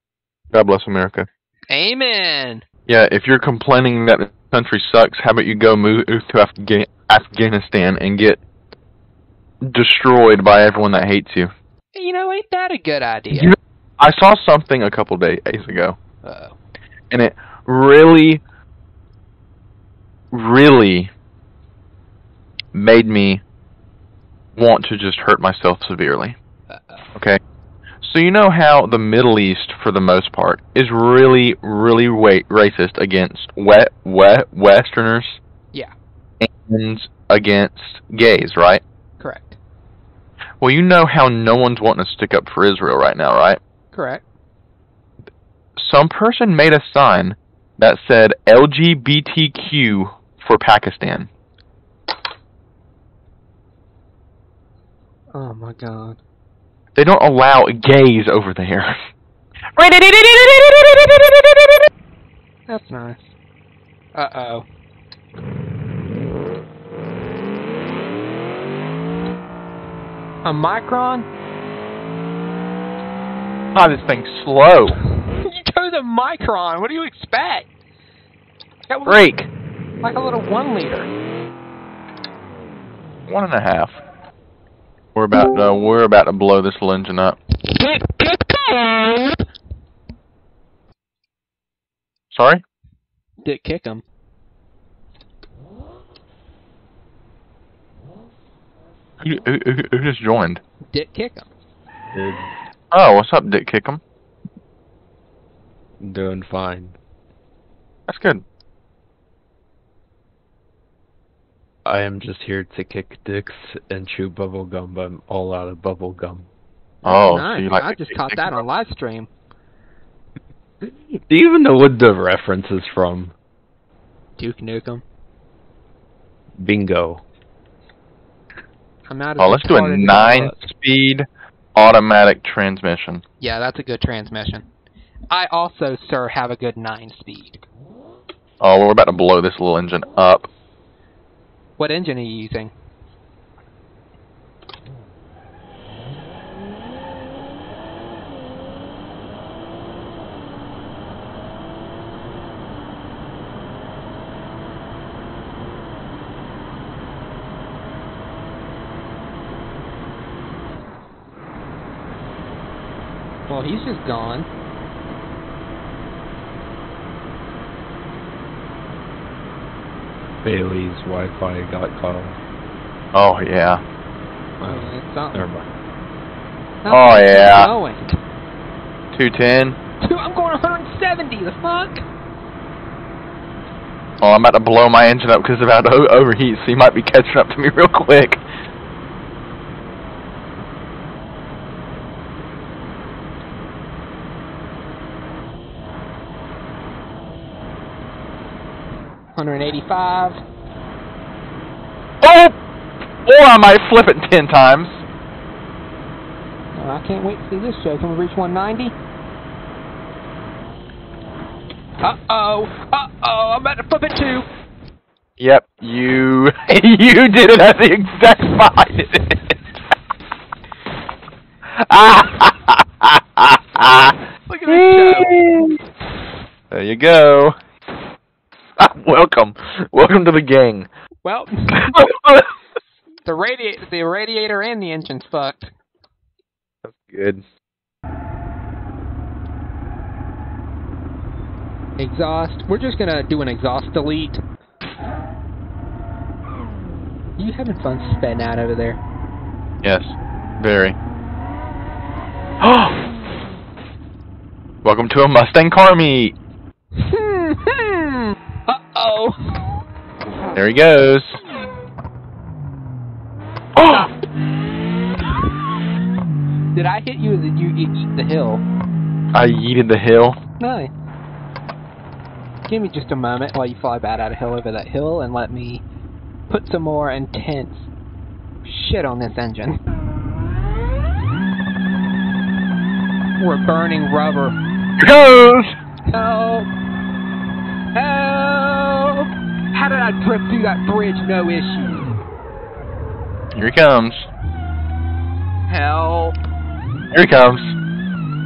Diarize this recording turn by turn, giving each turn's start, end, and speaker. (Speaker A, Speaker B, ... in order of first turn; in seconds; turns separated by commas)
Speaker A: 0.5-1.3, Speaker B: 1.7-2.6, Speaker A: 2.9-8.4, Speaker A: 9.6-11.5, Speaker B: 11.9-13.5, Speaker A: 13.3-16.0, Speaker B: 16.2-16.5, Speaker A: 17.1-18.4, Speaker A: 20.3-21.1, Speaker A: 22.7-23.4, Speaker A: 24.5-26.4, Speaker B: 26.7-27.0, Speaker A: 27.1-27.4, Speaker A: 28.0-35.4, Speaker A: 36.4-38.8, Speaker B: 39.2-39.6, Speaker A: 40.6-43.6, Speaker B: 43.9-44.2, Speaker A: 45.8-51.3, Speaker B: 55.3-56.2, Speaker A: 57.0-59.0, Speaker A: 59.8-61.9, Speaker B: 62.7-63.3, Speaker B: 64.1-64.6, Speaker B: 70.4-71.3, Speaker A: 73.7-75.0, Speaker B: 75.1-77.7, Speaker B: 78.9-79.2, Speaker A: 79.0-79.5, Speaker B: 80.0-81.1, Speaker A: 83.3-84.0, Speaker A: 85.1-87.4, Speaker B: 87.9-89.3, Speaker A: 92.3-92.6, Speaker B: 93.4-94.0, Speaker A: 99.2-100.6, Speaker B: 100.9-101.5, Speaker C: 102.1-102.4, Speaker A: 102.9-104.0, Speaker C: 106.0-107.0, Speaker A: 108.1-108.4, Speaker C: 111.8-116.5, Speaker A: 117.0-118.6, Speaker B: 117.0-119.3, Speaker C: 120.8-123.3, Speaker B: 124.4-125.0, Speaker C: 126.6-127.2, Speaker B: 129.1-130.6, Speaker A: 129.4-133.2, Speaker B: 133.4-134.7, Speaker B: 135.3-137.6, Speaker A: 138.6-140.5, Speaker B: 141.8-142.7, Speaker B: 163.5-164.5, Speaker C: 170.4-172.4, Speaker A: 173.1-173.8, Speaker C: 174.6-175.7, Speaker B: 174.6-175.4, Speaker B: 176.8-178.2, Speaker A: 176.9-177.7, Speaker A: 179.1-179.8, Speaker B: 180.0-182.0, Speaker A: 184.2-188.4, Speaker B: 199.3-200.4, Speaker A: 202.2-202.6, Speaker A: 203.2-205.0, Speaker B: 206.7-208.9, Speaker B: 212.0-214.5, Speaker A: 215.4-219.6, Speaker A: 221.7-225.8, Speaker B: 224.5-225.4, Speaker A: 226.7-227.6, Speaker A: 228.8-230.9, Speaker B: 231.2-231.9, Speaker A: 231.7-232.5, Speaker B: 233.2-235.7, Speaker A: 236.8-237.4, Speaker B: 242.0-244.4, Speaker B: 247.4-249.0, Speaker A: 249.8-251.0, Speaker A: 252.6-253.0, Speaker A: 254.8-256.3, Speaker B: 256.9-259.7, Speaker A: 260.5-261.4, Speaker A: 263.7-264.1, Speaker B: 266.7-268.6, Speaker A: 269.3-270.4, Speaker B: 270.6-270.9, Speaker B: 272.7-275.8, Speaker B: 276.5-277.9, Speaker B: 278.6-279.8, Speaker B: 283.4-284.6, Speaker A: 285.0-285.7, Speaker B: 286.1-286.7, Speaker B: 287.9-292.1, Speaker A: 293.5-294.3, Speaker B: 295.7-296.3, Speaker A: 297.1-297.8